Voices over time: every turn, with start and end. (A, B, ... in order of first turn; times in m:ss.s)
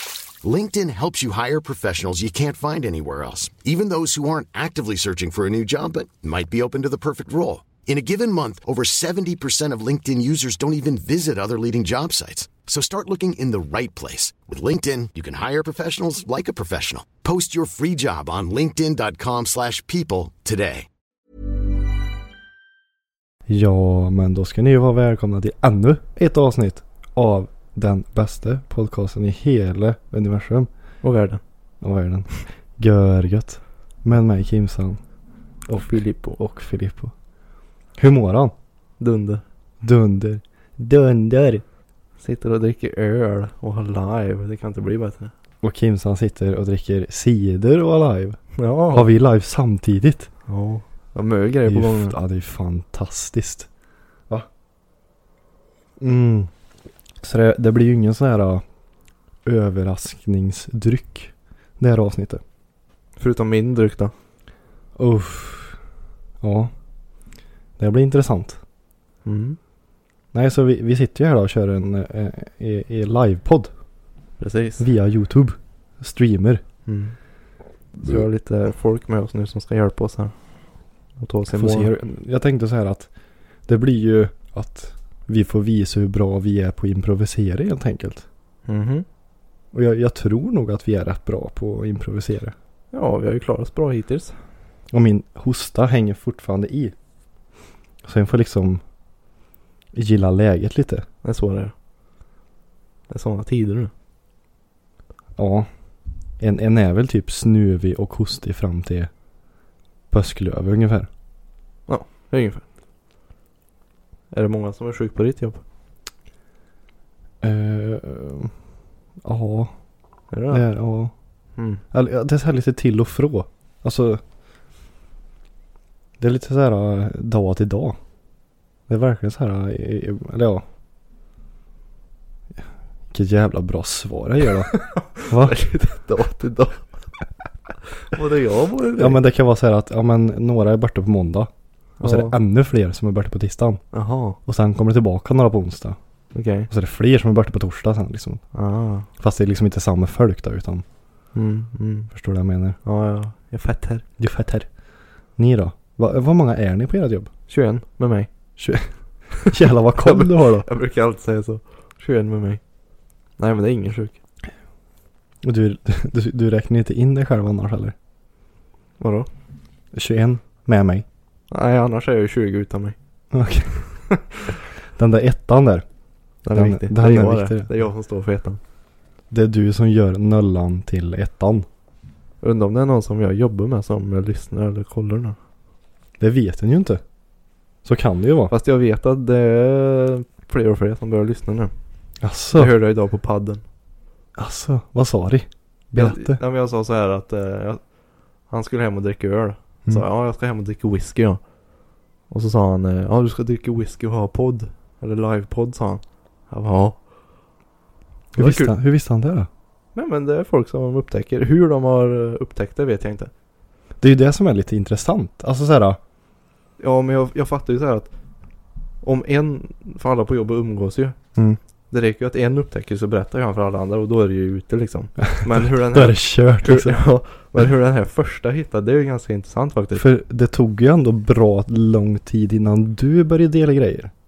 0:00.4-0:20.9 A
0:23.5-0:30.7 B
0:31.0-0:31.4 C
0:31.8-0:35.0 B
0:35.7-0:37.1 B
0:35.7-0:36.4 C
0:38.0-0:38.5 B
0:39.0-0:39.4 C
0:39.8-0:41.6 B
0:42.2-0:45.3 C
0:45.6-0:48.4 B
0:48.6-0:49.1 C
0:48.9-0:50.3 B
0:50.5-0:52.2 C
0:51.7-0:53.7 B
0:56.0-0:56.5 B
0:57.2-0:58.6 B
0:59.4-1:02.4 B
1:03.2-1:04.1 C
1:05.0-1:05.8 B
1:06.4-1:06.7 B
1:07.8-1:08.6 B
1:09.2-1:09.6 C
1:10.3-1:13.7 B
1:14.4-1:14.9 C
1:14.8-1:16.6 B
1:16.8-1:17.2 C
1:17.9-1:20.4 C
1:21.2-1:21.9 C
1:21.5-1:23.1 B
1:23.7-1:28.2 B
1:28.6-1:29.0 C
1:29.7-1:32.5 B
1:32.9-1:34.4 C
1:34.9-1:36.9 B
1:38.0-1:38.8 B
1:39.9-1:41.0 B
1:41.2-1:41.7 C
1:43.1-1:43.9 C
1:45.4-1:45.7 B
1:46.4-1:49.1 B
1:50.1-1:51.1 B
1:51.9-1:52.6 C
1:54.3-1:55.6 C
1:57.4-1:58.5 B
1:59.2-1:59.7 B
2:00.3-2:00.7 C
2:00.5-2:01.1 B
2:01.6-2:01.8 C
2:01.9-2:04.2 B
2:06.2-2:08.0 B
2:08.9-2:10.6 B
2:13.1-2:15.6 B
2:14.7-2:16.9 C
2:18.1-2:19.2 C
2:19.0-2:21.5 B
2:22.0-2:22.4 C
2:22.0-2:23.8 B
2:23.9-2:24.4 C
2:24.4-2:26.0 B
2:26.3-2:26.7 C
2:26.7-2:28.4 B
2:28.5-2:29.1 C
2:29.2-2:30.8 B
2:31.3-2:32.1 C
2:32.1-2:32.8 B
2:32.8-2:34.0 C
2:34.2-2:34.7 B
2:35.4-2:37.3 B
2:37.5-2:38.3 C
2:38.6-2:38.9 B
2:39.4-2:40.7 B
2:40.0-2:42.6 C
2:43.4-2:44.2 C
2:45.4-2:47.9 B
2:49.0-2:49.3 C
2:49.9-2:51.0 B
2:51.5-2:53.0 C
2:53.3-2:53.9 B
2:55.0-2:55.8 B
2:56.4-2:58.6 C
2:56.5-2:57.7 B
2:59.3-3:01.6 B
3:02.4-3:05.4 C
3:06.2-3:07.0 B
3:07.8-3:08.5 B
3:08.5-3:11.7 C
3:12.2-3:12.8 B
3:12.6-3:13.6 C
3:14.4-3:16.4 B
3:15.9-3:17.8 C
3:18.5-3:21.4 C
3:22.3-3:27.0 C
3:28.3-3:28.7 C
3:28.3-3:29.5 B
3:29.9-3:33.3 C
3:34.0-3:36.0 B
3:36.8-3:38.1 C
3:39.0-3:41.2 C
3:41.9-3:50.1 C
3:45.3-3:47.0 B
3:49.9-3:54.1 B